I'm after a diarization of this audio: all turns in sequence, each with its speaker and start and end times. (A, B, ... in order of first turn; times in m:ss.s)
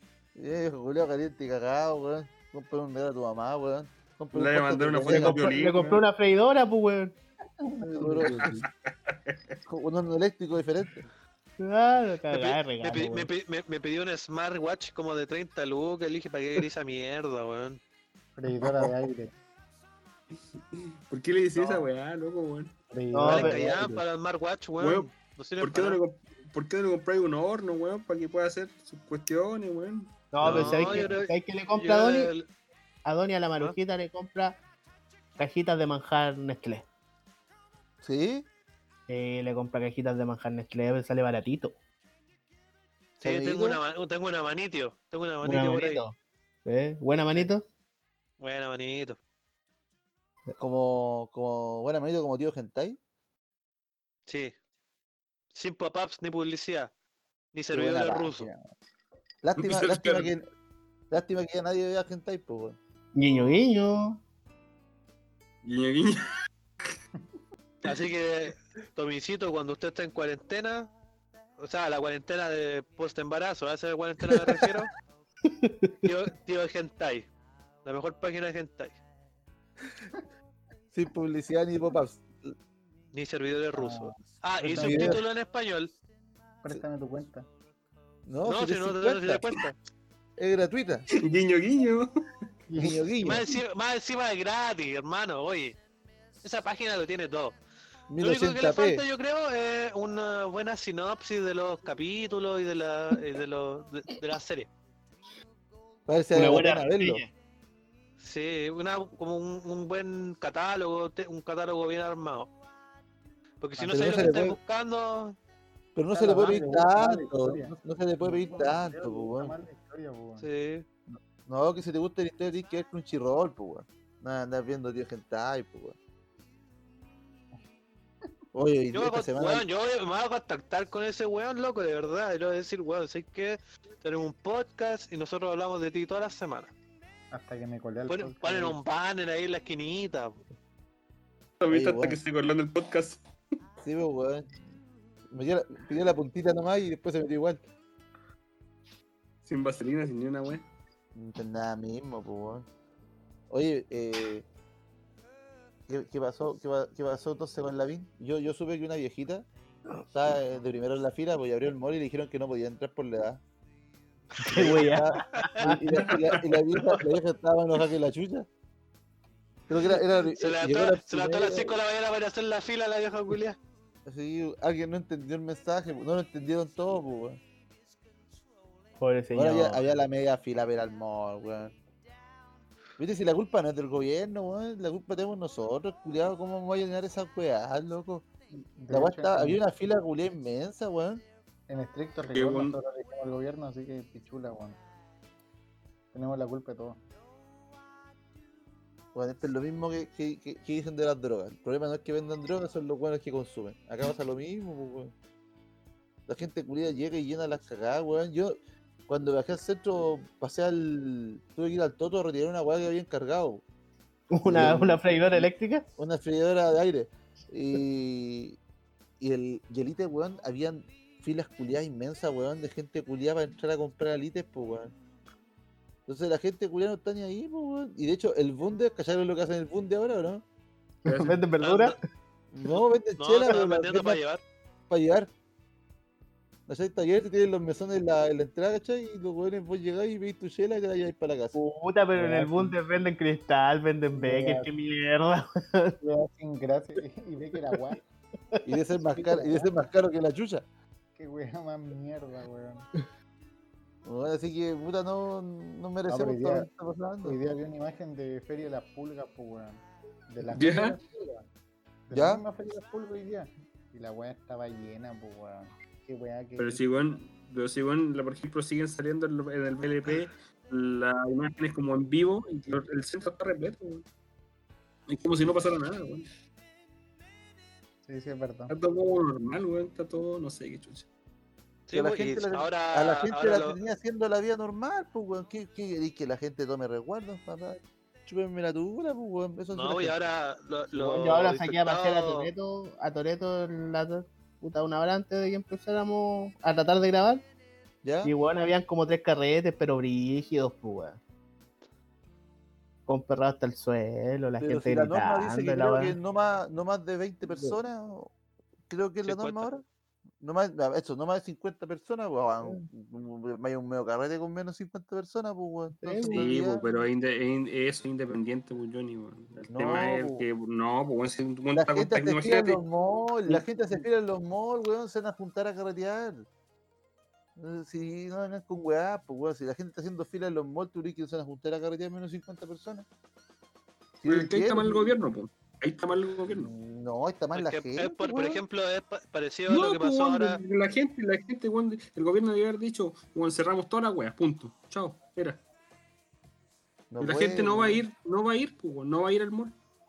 0:00.4-0:05.5 A
0:04.3-0:06.0 B
0:05.1-0:07.2 C
0:07.6-0:08.6 D
0:07.8-0:08.6 A
0:08.2-0:09.6 B
0:09.7-0:11.0 A
0:11.6-0:13.3 C
0:12.3-0:17.8 E
0:18.4-0:19.3 D
0:18.6-0:19.0 B
0:20.7-0:22.7 B
0:21.6-0:21.8 D
0:22.9-0:24.0 D
0:23.1-0:23.8 C
0:23.2-0:26.0 E
0:24.8-0:25.1 B
0:25.6-0:31.1 B
0:30.3-0:32.3 C
0:30.4-0:32.5 E
0:33.0-0:34.6 C
0:35.4-0:36.8 C
0:38.0-0:38.5 A
0:39.1-0:41.7 C
0:43.2-0:46.0 E
0:43.2-0:43.8 A
0:45.4-0:47.6 C
0:48.4-0:49.2 E
0:50.6-0:53.0 A
0:54.3-0:54.5 E
0:55.5-0:56.9 E
0:57.5-0:58.5 E
0:57.7-0:58.6 A
0:59.4-1:00.5 A
0:59.6-1:00.3 B
1:01.1-1:02.8 A
1:03.2-1:04.2 C
1:05.6-1:06.3 B
1:07.8-1:10.9 E
1:11.6-1:14.9 E
1:15.5-1:15.9 C
1:16.0-1:17.3 E
1:17.8-1:19.0 E
1:20.9-1:22.5 A
1:23.1-1:25.9 E
1:23.7-1:25.2 D
1:24.8-1:25.2 A
1:26.6-1:27.5 D
1:28.3-1:29.4 A
1:28.5-1:29.8 E
1:30.4-1:31.1 A
1:31.2-1:32.1 B
1:32.7-1:33.2 D
1:32.8-1:33.4 A
1:33.2-1:35.8 E
1:36.4-1:37.6 E
1:38.1-1:39.0 A
1:38.2-1:44.7 E
1:46.1-1:47.2 A
1:46.4-1:47.3 C
1:48.2-1:52.5 E
1:53.6-1:55.4 E
1:53.9-1:54.6 A
1:56.0-1:59.5 A
1:56.1-2:00.5 D
2:00.4-2:00.8 E
2:01.5-2:06.0 A
2:08.5-2:09.6 A
2:08.9-2:16.7 E
2:17.3-2:18.8 D
2:18.1-2:20.4 E
2:21.6-2:23.2 B
2:21.7-2:22.2 A
2:23.8-2:24.5 A
2:25.3-2:27.6 A
2:29.4-2:30.7 B
2:31.2-2:32.7 A
2:33.5-2:34.5 A
2:35.9-2:39.5 A
2:40.1-2:43.4 A
2:44.4-2:46.1 C
2:44.5-2:48.5 A
2:45.9-2:46.4 B
2:49.7-2:51.8 A
2:50.4-2:53.6 E
2:54.1-2:57.4 A
2:59.0-2:59.8 C
2:59.3-3:01.8 A
3:03.0-3:08.3 A
3:08.8-3:09.6 D
3:08.9-3:11.2 A
3:11.7-3:14.8 D
3:12.3-3:12.8 B
3:16.1-3:17.0 D
3:19.2-3:25.1 A
3:26.3-3:28.6 A
3:29.1-3:33.6 A
3:34.3-3:35.9 C
3:34.4-3:38.6 A
3:39.2-3:45.0 A
3:46.1-3:50.4 A
3:51.0-3:51.4 B
3:51.1-3:52.0 C
3:51.6-3:52.0 E
3:52.5-3:54.2 A
3:53.2-3:54.4 E
3:54.9-3:55.3 A
3:56.7-4:01.6 A
4:01.6-4:06.0 C
4:02.2-4:02.8 D
4:04.2-4:04.7 D
4:06.0-4:08.0 D
4:08.6-4:10.6 A
4:09.1-4:09.7 D
4:11.2-4:12.9 D
4:14.0-4:17.4 A
4:16.1-4:16.7 D
4:17.2-4:21.4 D
4:20.5-4:21.0 B
4:22.1-4:26.8 D
4:22.1-4:22.4 A
4:26.6-4:34.0 B
4:35.1-4:36.3 B
4:38.0-4:38.7 D
4:38.7-4:41.1 B
4:41.9-4:43.8 E
4:41.9-4:50.2 A
4:49.7-4:52.5 E
4:50.9-4:57.4 C
4:58.0-4:58.3 A
4:58.2-5:01.2 C
5:03.1-5:06.2 C
5:04.6-5:08.3 A
5:08.9-5:09.8 A
5:09.2-5:09.7 E
5:10.4-5:16.8 A
5:16.0-5:16.5 C
5:16.3-5:22.8 B
5:19.7-5:20.4 A
5:21.7-5:26.5 A
5:27.6-5:33.1 A
5:34.2-5:35.2 A
5:34.3-5:36.7 B
5:36.5-5:38.6 A
5:37.6-5:40.6 E
5:39.7-5:45.6 B
5:47.1-5:48.0 A
5:47.2-5:49.8 B